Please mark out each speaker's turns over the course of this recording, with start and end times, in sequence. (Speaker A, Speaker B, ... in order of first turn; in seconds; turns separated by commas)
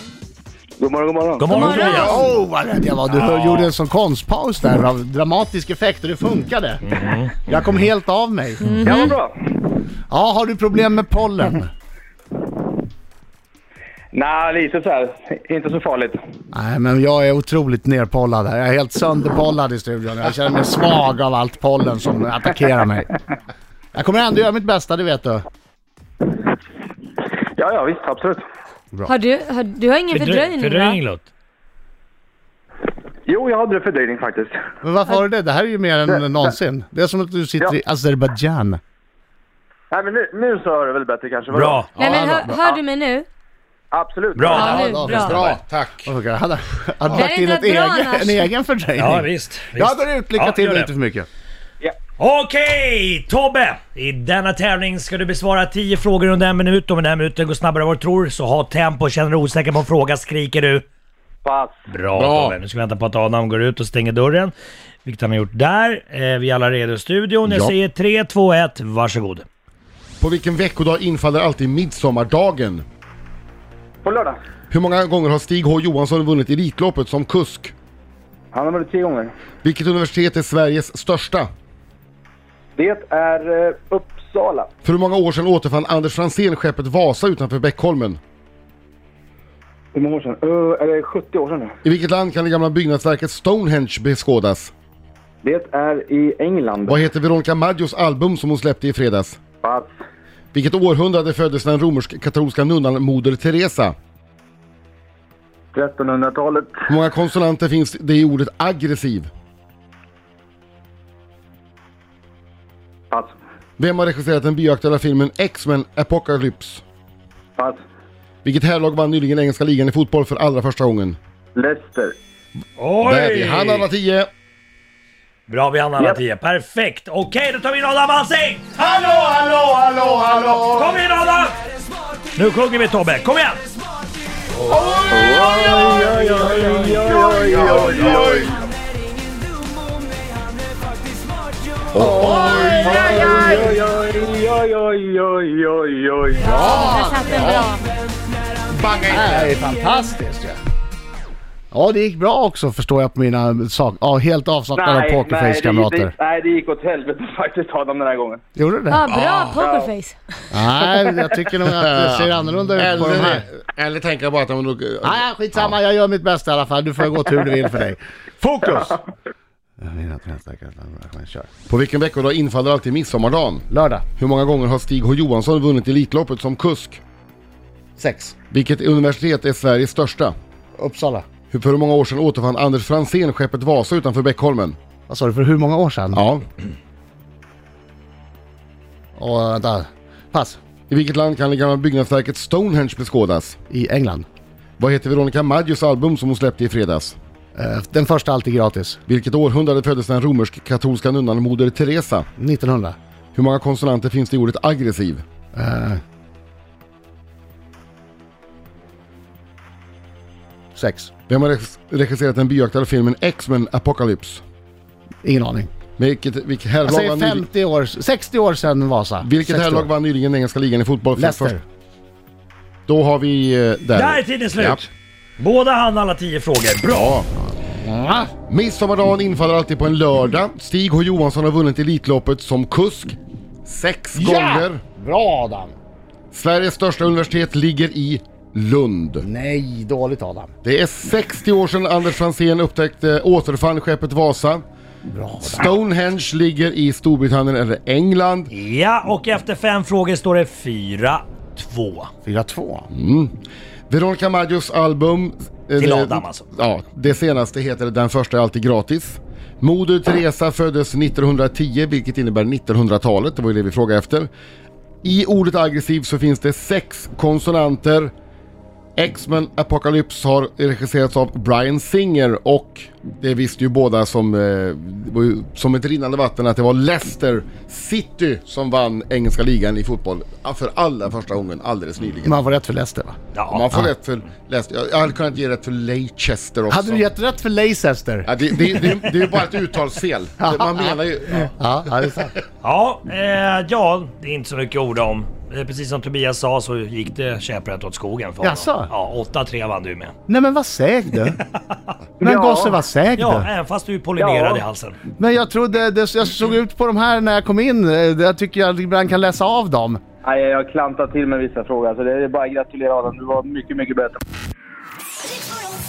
Speaker A: 0.8-1.8, Speaker B: 1.4-2.2, Speaker C: 1.5-2.2, Speaker D: 1.7-2.2, Speaker E: 1.9-8.9, Speaker B: 3.1-3.7, Speaker B: 6.8-7.6, Speaker C: 8.6-9.2, Speaker A: 8.8-9.5, Speaker E: 10.1-11.7, Speaker A: 14.1-16.2, Speaker E: 16.5-23.1, Speaker E: 23.9-25.4, Speaker A: 27.6-28.4, Speaker C: 29.1-31.0, Speaker B: 30.1-31.2, Speaker A: 33.2-34.6, Speaker E: 34.8-38.8, Speaker A: 39.9-41.9, Speaker B: 41.5-42.0, Speaker C: 41.9-43.2, Speaker E: 42.1-42.6, Speaker A: 43.9-44.7, Speaker B: 44.4-45.2, Speaker C: 44.5-45.4, Speaker D: 44.6-46.1, Speaker E: 44.7-51.3, Speaker C: 47.1-48.5, Speaker B: 49.0-50.9, Speaker B: 52.2-60.8, Speaker A: 61.4-61.9, Speaker B: 61.9-64.5, Speaker D: 62.1-62.6, Speaker B: 65.0-69.5, Speaker D: 67.5-67.7, Speaker D: 70.2-72.8, Speaker A: 74.0-74.4, Speaker D: 74.7-77.7, Speaker A: 78.5-79.3, Speaker D: 79.6-81.5, Speaker A: 82.8-84.7, Speaker D: 84.8-88.2, Speaker A: 89.9-91.8, Speaker D: 91.8-94.7, Speaker A: 95.4-97.0, Speaker D: 96.9-99.4, Speaker A: 99.6-99.9, Speaker D: 100.5-104.0, Speaker A: 105.7-106.9, Speaker D: 106.9-109.3, Speaker A: 113.1-113.4, Speaker D: 113.8-116.8, Speaker A: 117.6-117.8, Speaker D: 118.4-121.2, Speaker A: 121.6-122.2, Speaker B: 122.8-123.9, Speaker D: 123.0-124.3, Speaker B: 125.5-129.1, Speaker D: 129.8-130.6, Speaker B: 130.6-131.6, Speaker B: 132.3-133.7, Speaker A: 135.1-138.5, Speaker D: 137.1-138.6, Speaker D: 141.9-142.9, Speaker E: 141.9-143.8, Speaker A: 142.1-146.7, Speaker E: 146.4-147.7, Speaker C: 146.6-147.8, Speaker D: 148.7-149.5, Speaker E: 149.1-150.6, Speaker E: 151.7-156.1, Speaker A: 154.8-158.4, Speaker E: 158.6-159.1, Speaker C: 158.9-160.2, Speaker D: 159.1-159.6, Speaker A: 159.6-159.9, Speaker E: 160.5-163.4, Speaker D: 161.6-165.8, Speaker E: 165.0-169.0, Speaker E: 169.8-171.5, Speaker D: 171.7-173.7, Speaker E: 173.7-174.1, Speaker D: 174.2-177.0, Speaker E: 178.0-178.3, Speaker D: 178.5-180.3, Speaker E: 180.8-181.3, Speaker D: 181.5-184.8, Speaker E: 185.1-186.2, Speaker D: 186.1-186.5, Speaker E: 189.2-190.6, Speaker D: 190.9-193.6, Speaker E: 193.7-194.2, Speaker D: 194.8-197.2, Speaker E: 197.6-199.0, Speaker D: 199.1-202.3, Speaker E: 202.4-203.0, Speaker D: 203.3-205.2, Speaker E: 205.6-206.0, Speaker E: 210.8-211.1, Speaker D: 211.3-214.4, Speaker E: 215.2-215.7, Speaker D: 216.0-217.4, Speaker E: 216.8-219.9, Speaker D: 219.2-221.6, Speaker E: 221.2-221.7, Speaker D: 222.9-224.8, Speaker B: 223.9-227.1, Speaker D: 226.9-227.3, Speaker E: 227.7-228.3, Speaker D: 228.5-234.8, Speaker E: 234.2-235.8, Speaker D: 236.3-239.2, Speaker E: 239.2-240.5, Speaker D: 240.6-244.6, Speaker E: 245.1-245.7, Speaker D: 245.4-248.5, Speaker B: 248.5-252.1, Speaker E: 252.2-252.9, Speaker D: 252.9-253.3, Speaker D: 253.9-264.3, Speaker B: 255.8-256.5, Speaker D: 265.0-268.1, Speaker D: 269.0-282.4, Speaker E: 282.2-283.2, Speaker B: 283.3-283.7, Speaker D: 283.5-287.1, Speaker E: 286.7-288.4, Speaker D: 288.2-291.5, Speaker E: 290.4-292.4, Speaker B: 292.6-300.1, Speaker E: 298.4-298.9, Speaker E: 300.3-301.4, Speaker E: 302.2-303.5, Speaker A: 302.2-302.8, Speaker B: 303.2-305.0, Speaker A: 304.1-304.6, Speaker E: 305.2-310.0, Speaker A: 310.2-314.2